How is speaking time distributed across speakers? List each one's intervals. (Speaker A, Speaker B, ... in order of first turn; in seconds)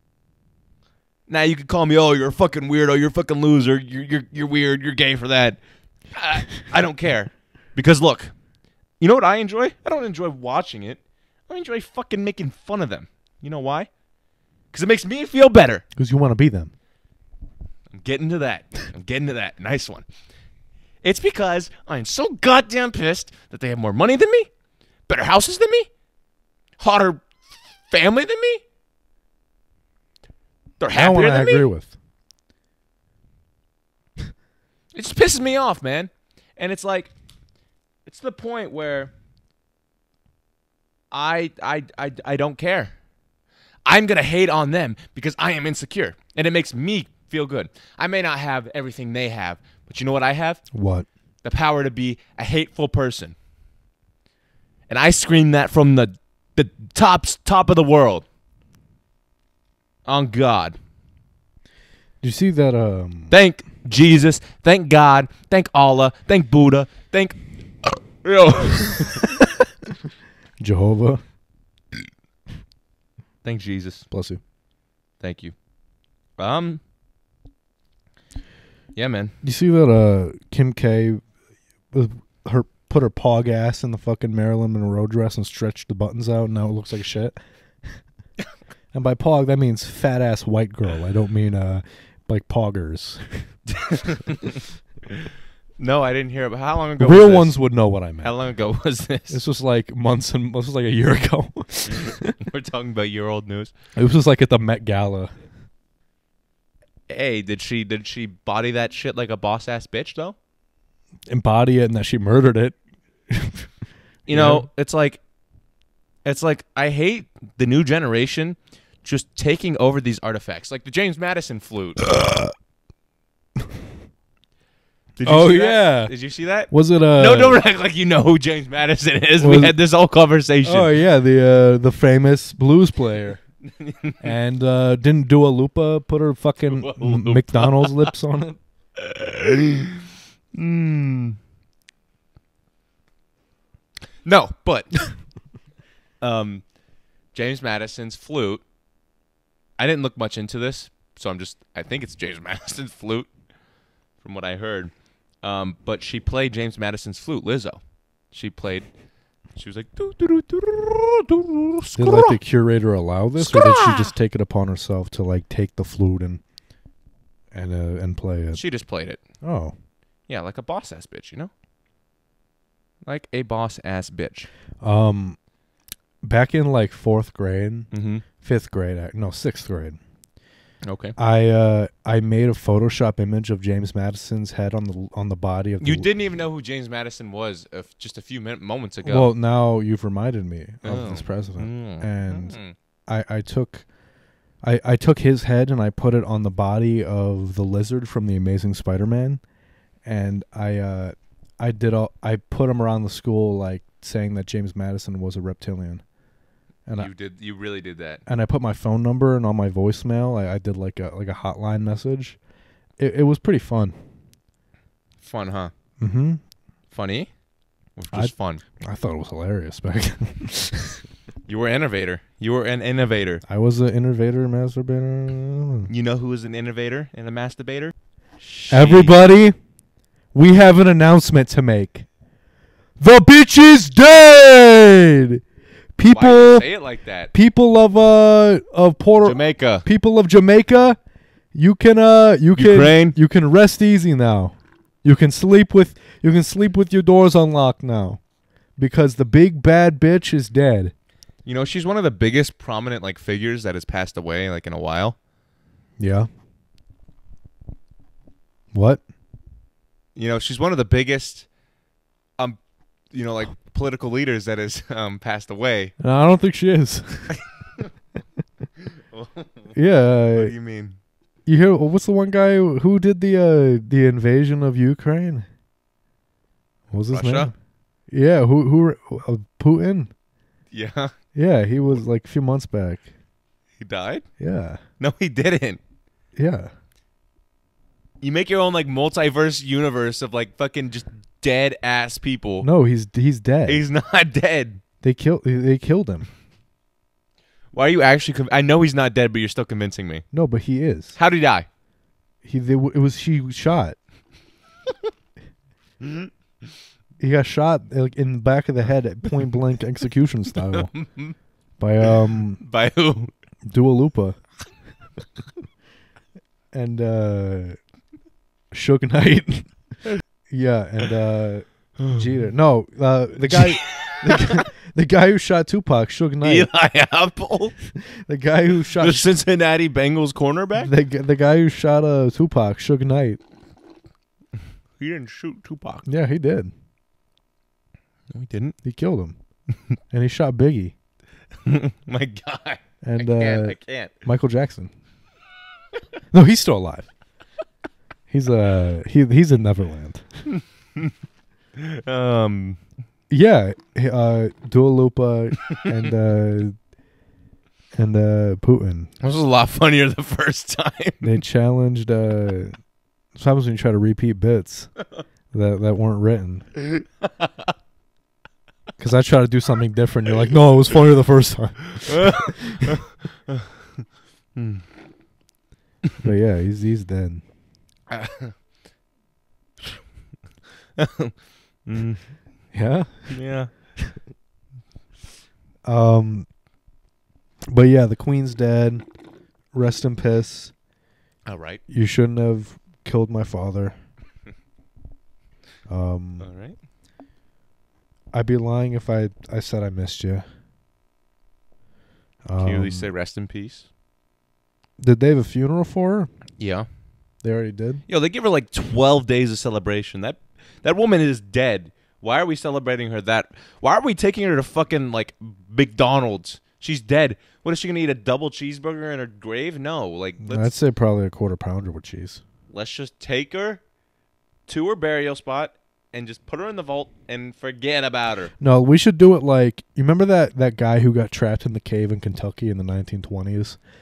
Speaker A: 1.3-5.6, 6.1-8.3, 9.0-13.9, 14.7-15.8, 17.9-20.1, 21.0-24.5, 25.1-25.9, 26.8-27.2, 27.9-28.6, 30.8-31.7, 34.9-37.1, 38.1-39.1, 41.1-42.9, 43.9-50.6, 51.4-53.4, 54.9-58.2, 60.1-60.8, 63.3-67.4, 68.2-69.2, 73.4-74.1, 75.2-75.5, 76.4-76.8, 79.0-79.3, 93.7-94.6, 95.8-97.5, 98.2-99.4, 101.9-103.7, 107.1-110.4, 114.3-115.2, 116.2-122.0, 125.2-130.9, 133.7-134.3, 136.7-138.1, 139.0-141.4, 144.2-144.9, 146.2-146.6, 147.3-148.6, 149.8-153.3, 154.2-157.8, 158.3-158.9, 159.6-162.4, 163.4-164.1, 168.5-169.2, 170.3-171.5, 173.1-174.5, 177.9-178.2, 180.8-181.2, 185.8-189.3, 190.8-192.8, 207.0-208.2, 215.2-215.7, 216.9-217.3, 218.0-218.6, 221.5-223.4, 225.9-229.2, 236.1-237.3, 239.2-239.9, 242.5-243.2, 251.4-255.2, 260.2-261.5, 263.1-265.9, 267.4-267.9, 268.9-269.8, 270.4-271.0, 277.1-277.5, 280.7-281.1, 283.8-284.3, 285.0-285.8, 288.2-292.7, 293.7-294.8, 297.7-300.2, 301.2-301.7, 306.0-306.3, 310.6-311.4, 312.0-313.3, 322.0-322.3, 323.5-324.6, 326.4-327.8, 329.0-330.9, 335.0-336.1, 338.3-338.8, 341.6-344.1, 350.5-351.1, 351.8-352.8, 359.2-361.4, 366.8-367.7, 372.1-373.7, 374.6-374.8, 378.1-378.6, 381.0-381.3, 381.9-382.2, 383.3-383.7, 391.5-391.8, 396.4-396.8, 402.6-403.9, 406.6-406.9, 408.1-420.7, 422.7-423.8, 424.7-428.5
Speaker B: 15.9-16.7, 30.9-31.9, 50.7-51.1, 62.2-63.3, 70.6-71.2, 74.1-74.4, 79.4-81.2, 81.9-87.4, 88.9-93.5, 97.0-98.3, 99.3-102.4, 104.0-105.3, 111.3-112.8, 113.3-113.7, 114.3-114.7, 122.1-122.5, 125.2-126.1, 126.7-127.6, 129.4-129.8, 130.6-133.4, 134.2-138.6, 162.0-166.4, 167.5-168.6, 169.4-169.7, 174.8-175.4, 176.2-177.9, 178.4-180.0, 181.2-186.1, 189.0-193.8, 194.6-199.4, 200.1-206.0, 206.9-207.1, 208.3-212.4, 213.0-213.9, 216.0-216.4, 218.1-221.0, 223.5-225.9, 228.7-229.6, 230.3-232.1, 233.0-235.4, 236.0-236.7, 237.3-241.0, 241.5-248.2, 248.8-250.9, 256.0-256.3, 258.7-259.0, 266.0-267.4, 269.8-270.5, 271.5-275.5, 276.9-277.5, 278.1-280.1, 281.3-283.1, 284.4-284.8, 286.4-286.7, 292.6-293.8, 295.0-296.3, 300.3-301.2, 302.4-304.0, 307.2-310.9, 311.8-312.6, 313.6-314.4, 316.7-317.8, 318.7-319.7, 320.5-326.7, 327.9-329.3, 330.8-333.4, 336.1-336.7, 338.8-339.4, 340.1-340.9, 343.0-344.9, 346.3-347.1, 348.3-350.2, 353.3-356.8, 357.9-359.1, 361.2-362.8, 363.4-364.9, 365.5-366.6, 369.0-372.9, 376.2-377.4, 382.7-383.4, 385.8-386.5, 387.7-389.0, 389.7-390.7, 391.9-393.9, 395.9-396.5, 398.3-400.4, 402.4-403.1, 405.0-406.3, 407.4-408.0, 420.4-422.4, 428.6-433.8